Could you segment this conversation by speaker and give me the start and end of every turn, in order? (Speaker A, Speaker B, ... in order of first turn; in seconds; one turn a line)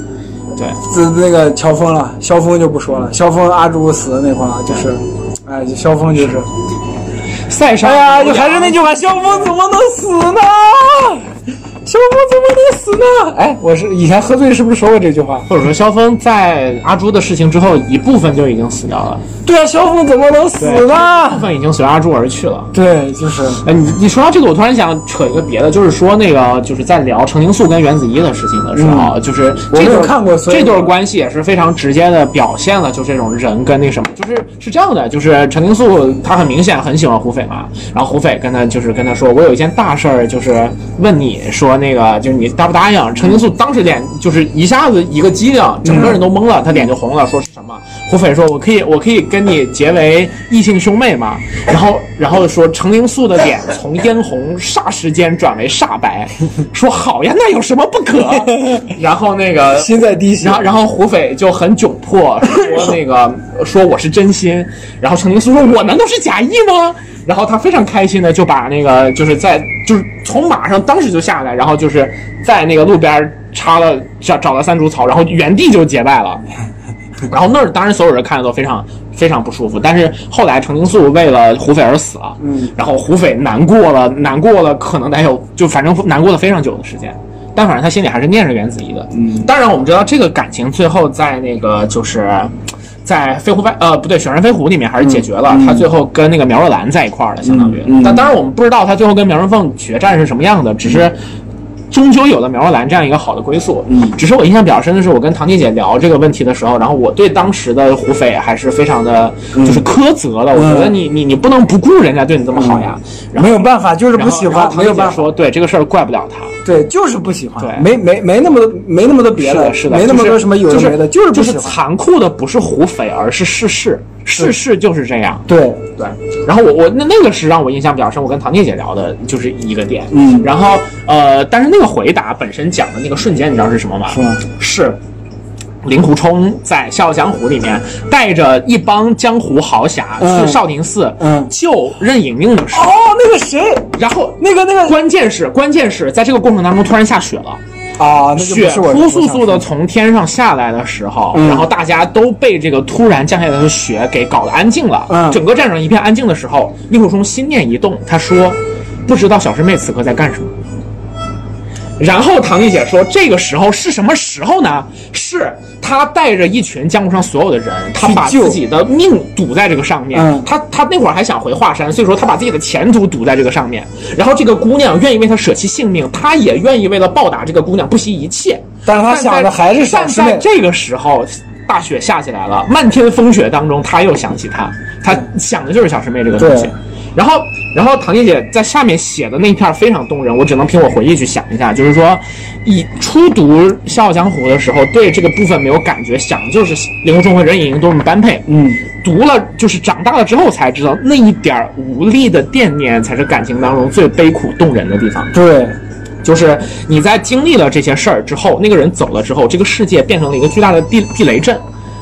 Speaker A: 0.8-6.5
Speaker B: 7.5-9.5
Speaker A: 7.8-11.3
Speaker A: 11.8-15.5
Speaker B: 15.5-19.2
Speaker A: 19.4-21.5
Speaker B: 20.6-22.7
Speaker A: 22.7-23.6
Speaker B: 23.6-76.4
Speaker A: 28.7-29.1
Speaker A: 29.7-30.9
Speaker A: 45.9-46.2
Speaker A: 58.4-58.9
Speaker A: 59.7-60.7
Speaker B: 77.2-101.2
Speaker A: 82.4-82.7
Speaker A: 89.1-89.5
Speaker A: 95.0-95.9
Speaker A: 97.4-98.3
Speaker B: 101.9-116.6
Speaker A: 103.9-104.2
Speaker A: 109.5-109.8
Speaker A: 110.5-111.0
Speaker A: 112.5-115.3
Speaker A: 116.6-121.8
Speaker B: 117.6-117.9
Speaker B: 119.3-135.0
Speaker A: 125.5-125.8
Speaker A: 130.1-130.5
Speaker A: 134.1-134.4
Speaker B: 135.8-143.0
Speaker A: 140.2-140.6
Speaker A: 141.2-141.5
Speaker A: 142.7-145.0
Speaker B: 143.9-147.6
Speaker A: 148.0-149.7
Speaker B: 148.3-160.5
Speaker A: 151.3-151.7
Speaker A: 155.1-155.4
Speaker B: 162.0-205.3
Speaker A: 168.0-168.6
Speaker A: 170.1-170.5
Speaker A: 178.8-180.4
Speaker A: 186.4-186.7
Speaker A: 198.5-198.8
Speaker A: 205.3-205.8
Speaker B: 206.2-211.6